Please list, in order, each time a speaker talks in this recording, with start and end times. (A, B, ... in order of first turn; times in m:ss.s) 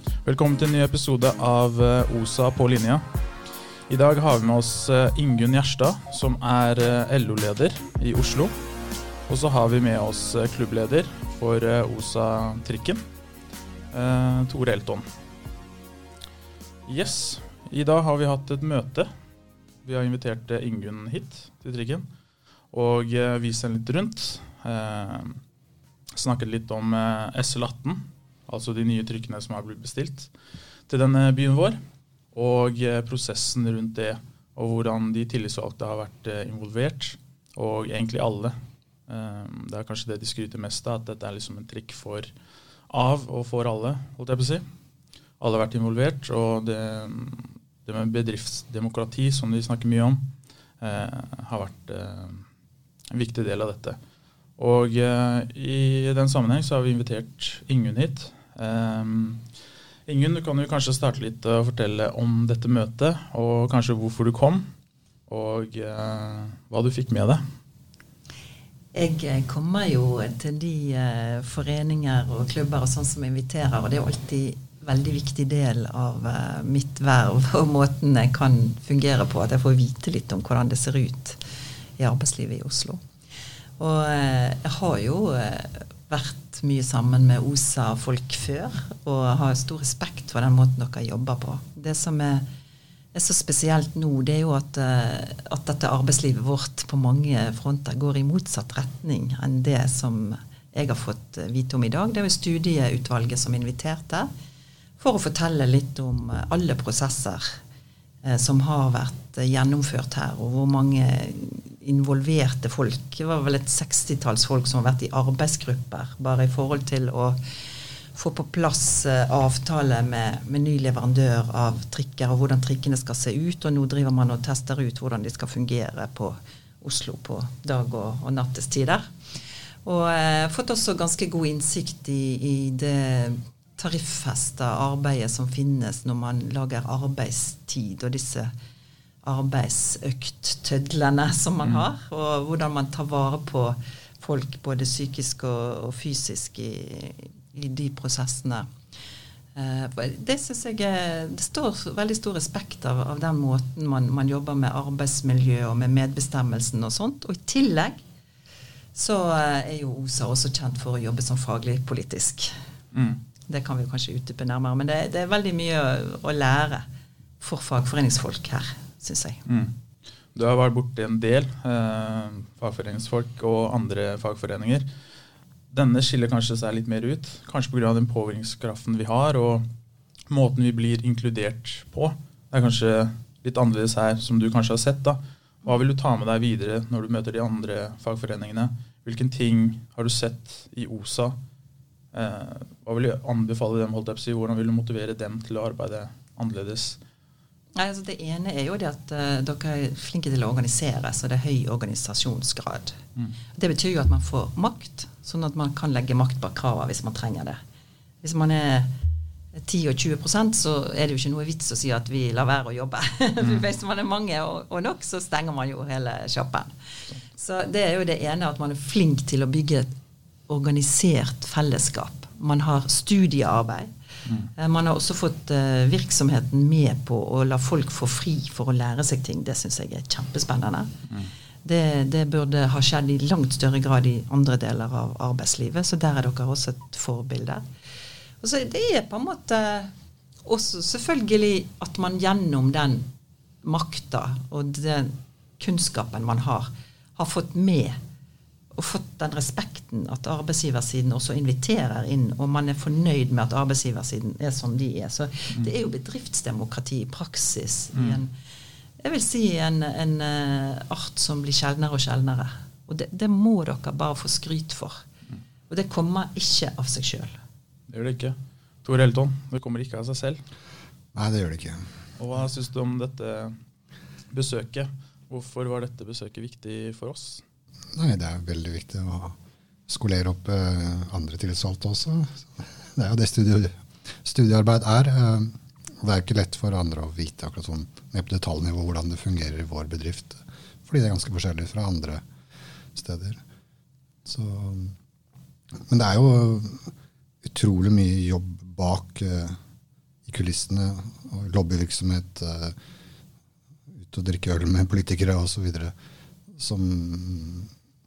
0:00.2-0:03.0 A
0:03.9-0:08.5 A
0:09.3-0:13.0 A
0:13.9-0:15.0 A
0:16.9-0:19.1 A
0:19.8-0:22.1 A
0:22.7-0:25.4 A
0:26.1-0:30.3 A
0:30.9-0:31.8 A
0:32.3-0:38.6 A
0:39.1-0:42.3 A
0:42.9-0:44.6 A
0:45.4-0:50.2 A
0:50.8-0:52.4 A
0:53.1-0:54.0 A
0:54.6-0:59.4 A
1:00.1-1:04.6 A
1:05.3-1:07.4 A
1:08.9-1:21.4 B
1:22.0-1:23.0 B
1:23.8-1:32.4 B
1:33.1-1:44.3 B
1:45.0-1:47.4 B
1:48.2-1:57.4 B
1:58.2-2:09.0 B
2:09.8-2:18.5 B
2:19.2-2:28.6 B
2:29.6-2:38.0 B
2:39.0-2:42.5 B
2:42.9-2:43.2 A
2:43.5-2:46.8 B
2:47.4-2:49.4 B
2:49.5-2:49.8 A
2:50.4-2:54.9 A
2:55.7-2:59.7 A
3:00.3-3:11.4 A
3:12.1-3:17.0 A
3:17.8-3:23.0 B
3:23.6-3:27.6 B
3:28.2-3:28.9 B
3:29.6-3:36.7 B
3:37.3-3:39.9 B
3:40.5-3:43.9 B
3:44.5-3:50.9 B
3:51.6-3:57.6 B
3:58.4-3:59.9 B
4:00.4-4:03.0 B
4:03.6-4:06.7 B
4:07.2-4:08.0 B
4:08.7-4:18.3 B
4:17.9-4:18.2 A
4:19.0-4:25.0 B
4:25.7-4:27.3 B
4:27.9-4:30.4 A
4:31.1-4:31.8 C
4:32.2-4:33.6 A
4:34.3-4:37.4 A
4:37.9-4:39.4 C
4:39.9-4:52.2 C
4:53.0-4:53.4 C
4:54.2-4:55.0 C
4:55.9-4:56.9 C
4:57.4-4:59.6 C
5:00.3-5:02.8 C
5:04.0-5:05.9 C
5:06.6-5:07.7 C